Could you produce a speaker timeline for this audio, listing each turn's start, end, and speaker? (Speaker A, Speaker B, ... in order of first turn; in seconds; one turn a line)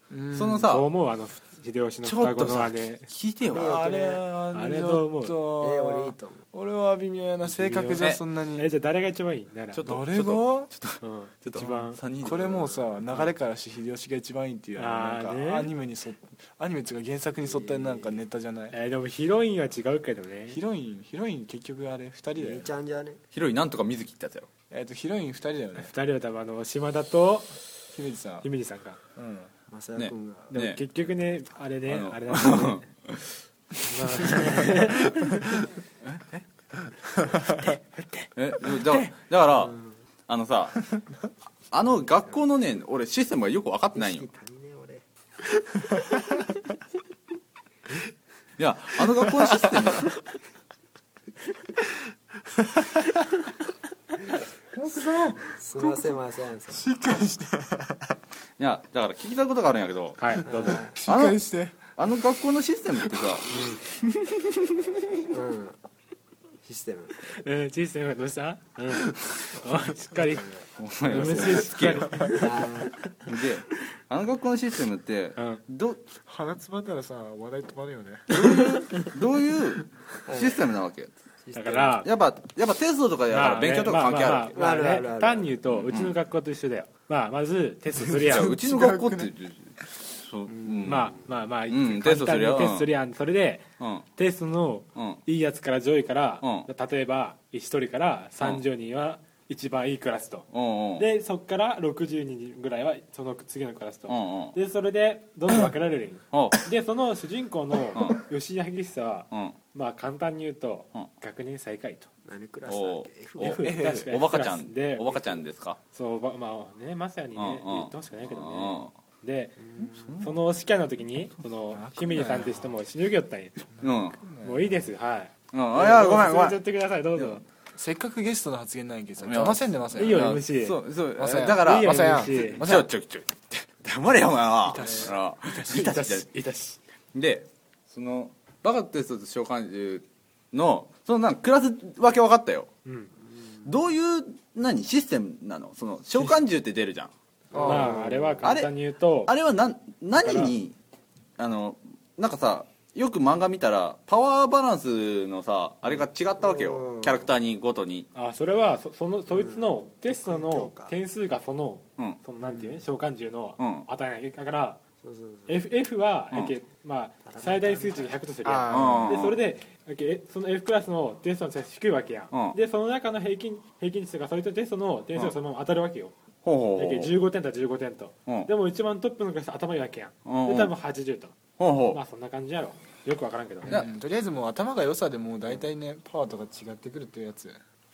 Speaker A: 0.1-0.7
Speaker B: 0.3-0.9
Speaker C: 0.7-3.1
Speaker B: 2.0-3.7
Speaker D: 3.5-4.2
Speaker A: 3.5-8.7
Speaker C: 4.5-5.4
Speaker D: 5.6-6.4
Speaker C: 7.5-9.8
Speaker B: 9.7-13.2
Speaker A: 9.8-10.7
Speaker C: 11.0-12.0
Speaker A: 12.2-18.7
Speaker C: 14.8-15.7
Speaker D: 17.4-18.2
Speaker C: 18.7-20.6
Speaker A: 20.5-22.7
Speaker D: 22.3-23.2
Speaker B: 23.3-24.5
Speaker A: 24.7-25.9
Speaker C: 25.8-27.6
Speaker A: 27.9-28.5
Speaker C: 28.4-29.0
Speaker A: 29.1-29.5
Speaker D: 29.7-30.5
Speaker B: 29.9-30.8
Speaker C: 30.5-32.9
Speaker B: 31.9-33.4
Speaker C: 33.8-35.4
Speaker D: 34.2-34.7
Speaker B: 36.0-36.4
Speaker D: 37.4-37.7
Speaker B: 38.4-39.8
Speaker D: 39.5-40.0
Speaker B: 40.3-40.8
Speaker B: 41.7-44.3
Speaker D: 43.9-45.0
Speaker D: 45.6-46.5
Speaker B: 48.6-50.1
Speaker A: 52.7-53.2
Speaker A: 54.7-56.2
Speaker D: 55.5-56.9
Speaker A: 56.7-58.2
Speaker B: 58.6-60.4
Speaker C: 60.2-60.9
Speaker D: 60.4-61.0
Speaker A: 60.6-61.8
Speaker B: 61.0-61.4
Speaker B: 61.9-63.5
Speaker A: 64.0-64.9
Speaker D: 65.3-65.8
Speaker D: 66.6-67.3
Speaker C: 67.2-70.5
Speaker D: 70.2-71.7
Speaker B: 70.8-72.4
Speaker C: 71.0-72.7
Speaker A: 72.1-72.4
Speaker D: 72.2-73.2
Speaker B: 73.2-76.0
Speaker C: 75.4-75.6
Speaker A: 76.2-78.7
Speaker B: 78.3-81.1
Speaker D: 80.2-80.7
Speaker D: 81.4-82.0
Speaker C: 81.5-82.1
Speaker B: 82.0-84.5
Speaker C: 83.3-88.5
Speaker D: 84.5-85.5
Speaker B: 85.8-86.1
Speaker A: 88.0-89.3
Speaker B: 88.2-91.2
Speaker D: 90.5-91.2
Speaker C: 90.8-112.1
Speaker B: 91.7-92.9
Speaker B: 93.8-94.0
Speaker B: 96.4-96.7
Speaker B: 100.5-101.1
Speaker B: 104.1-104.5
Speaker B: 106.3-106.6
Speaker B: 107.9-108.2
Speaker D: 112.2-113.6
Speaker B: 112.7-115.8
Speaker C: 113.4-115.4
Speaker A: 113.6-114.1
Speaker C: 115.9-123.6
Speaker B: 117.3-118.9
Speaker D: 119.6-120.1
Speaker B: 119.9-120.4
Speaker A: 121.7-122.7
Speaker A: 123.8-124.7
Speaker B: 123.8-124.2
Speaker C: 124.4-127.4
Speaker B: 125.5-126.6
Speaker B: 127.2-127.4
Speaker A: 127.8-130.3
Speaker B: 129.2-136.3
Speaker C: 129.9-130.8
Speaker A: 131.2-132.9
Speaker C: 131.4-132.7
Speaker A: 134.6-135.2
Speaker C: 134.9-136.8
Speaker B: 137.1-142.7
Speaker C: 142.8-143.1
Speaker D: 143.4-143.7
Speaker B: 143.6-147.1
Speaker D: 147.5-148.5
Speaker C: 147.5-149.3
Speaker B: 147.6-148.7
Speaker B: 149.2-150.8
Speaker C: 150.1-150.5
Speaker B: 151.4-158.1
Speaker D: 156.4-157.3
Speaker C: 158.1-164.8
Speaker D: 159.3-160.9
Speaker D: 162.4-162.8
Speaker B: 163.6-163.9
Speaker D: 165.0-165.6
Speaker C: 165.5-176.1
Speaker D: 167.2-169.2
Speaker B: 168.7-169.4
Speaker B: 172.3-172.6
Speaker B: 176.4-177.1
Speaker C: 176.8-181.3
Speaker B: 180.2-180.7
Speaker B: 181.6-182.0
Speaker C: 181.9-183.8
Speaker A: 183.7-187.6